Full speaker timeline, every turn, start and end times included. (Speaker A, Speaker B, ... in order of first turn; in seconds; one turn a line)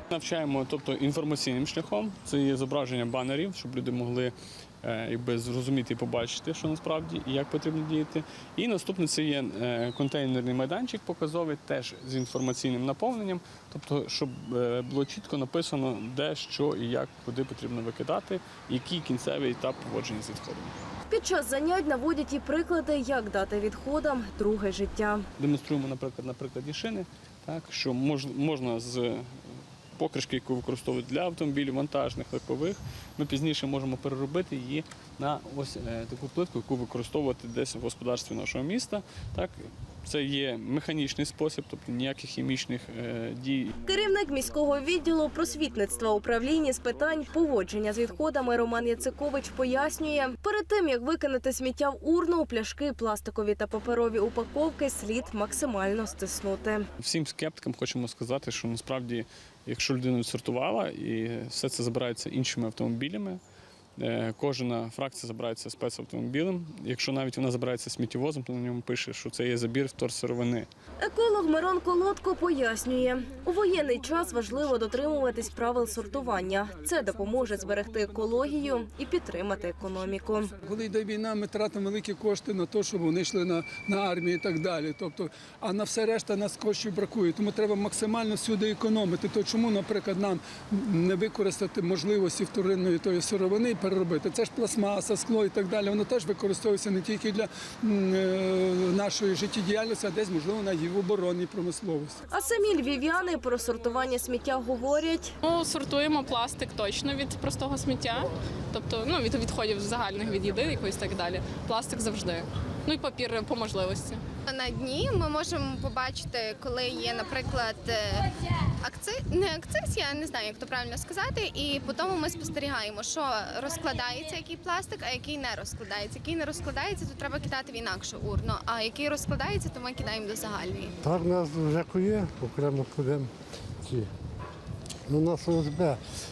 Speaker A: 0.1-20.8
Speaker B: 21.1-25.2
Speaker A: 25.4-29.3
Speaker A: 29.9-43.9
Speaker B: 43.9-56.9
Speaker A: 57.0-63.4
Speaker A: 64.0-70.7
Speaker B: 71.0-80.5
Speaker C: 77.2-77.5
Speaker C: 80.5-102.2
Speaker B: 102.3-105.3
Speaker D: 105.4-114.2
Speaker E: 114.5-130.9
Speaker F: 131.0-133.3
Speaker F: 133.8-134.1
Speaker F: 135.1-136.0